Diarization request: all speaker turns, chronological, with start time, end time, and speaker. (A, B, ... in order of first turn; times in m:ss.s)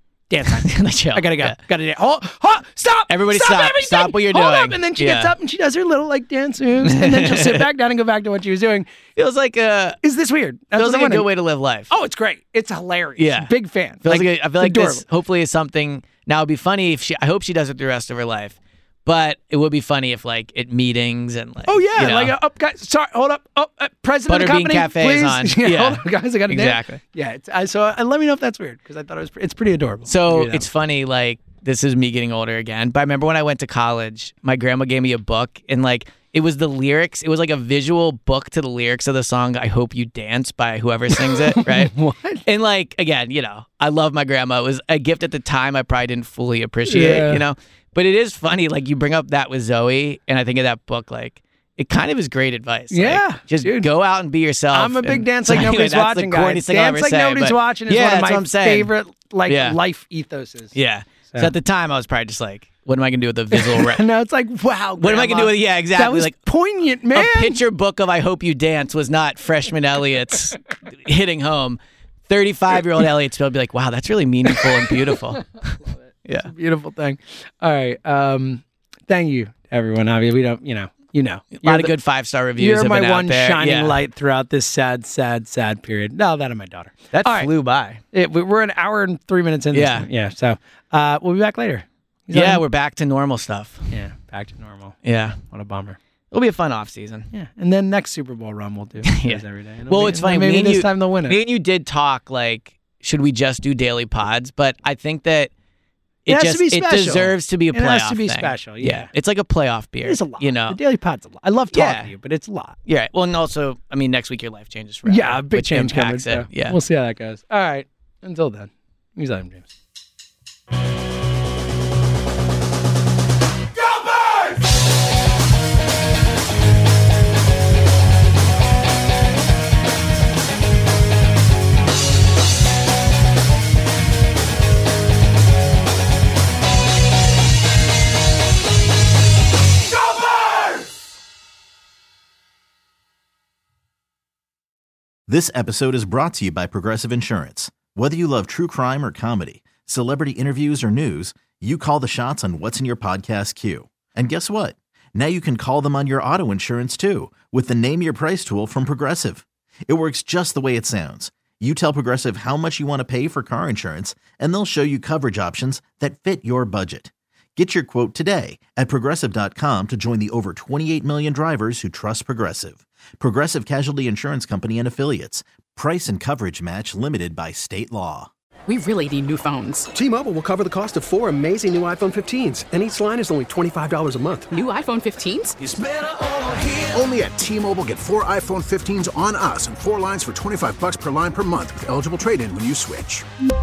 0:00.3-0:08.9 A
0:00.6-0:01.6 B
0:03.1-0:05.3 B
0:06.8-0:07.6 B
0:09.2-0:10.0 B
0:10.0-0:11.2 A
0:10.8-0:11.9 B
0:11.9-0:15.0 A
0:13.2-0:22.3 B
0:21.7-0:30.7 A
0:24.3-0:27.0 B
0:30.1-0:41.9 B
0:41.2-0:42.4 A
0:42.4-0:58.9 B
0:46.9-0:47.4 A
0:52.9-0:53.9 A
0:54.7-1:00.7 A
0:59.5-0:59.8 B
1:00.8-1:04.0 B
1:03.5-1:07.6 A
1:05.0-1:06.4 B
1:07.1-1:16.5 B
1:14.5-1:15.1 A
1:16.4-1:21.9 A
1:21.6-1:24.0 B
1:22.6-1:27.5 A
1:27.1-1:28.0 B
1:28.1-1:32.6 A
1:29.7-1:30.1 B
1:32.3-1:33.9 B
1:33.9-1:35.0 A
1:35.0-1:35.4 B
1:35.5-1:36.0 A
1:36.3-1:37.3 B
1:37.3-1:41.4 A
1:39.0-1:45.5 B
1:46.3-1:50.8 B
1:46.3-1:49.1 A
1:50.0-1:52.8 A
1:51.7-1:52.1 B
1:52.9-1:56.8 B
1:55.1-1:59.7 A
2:25.3-2:58.3 C
2:58.7-2:59.9 D
2:59.9-3:04.6 E
3:04.5-3:05.6 D
3:05.6-3:13.3 F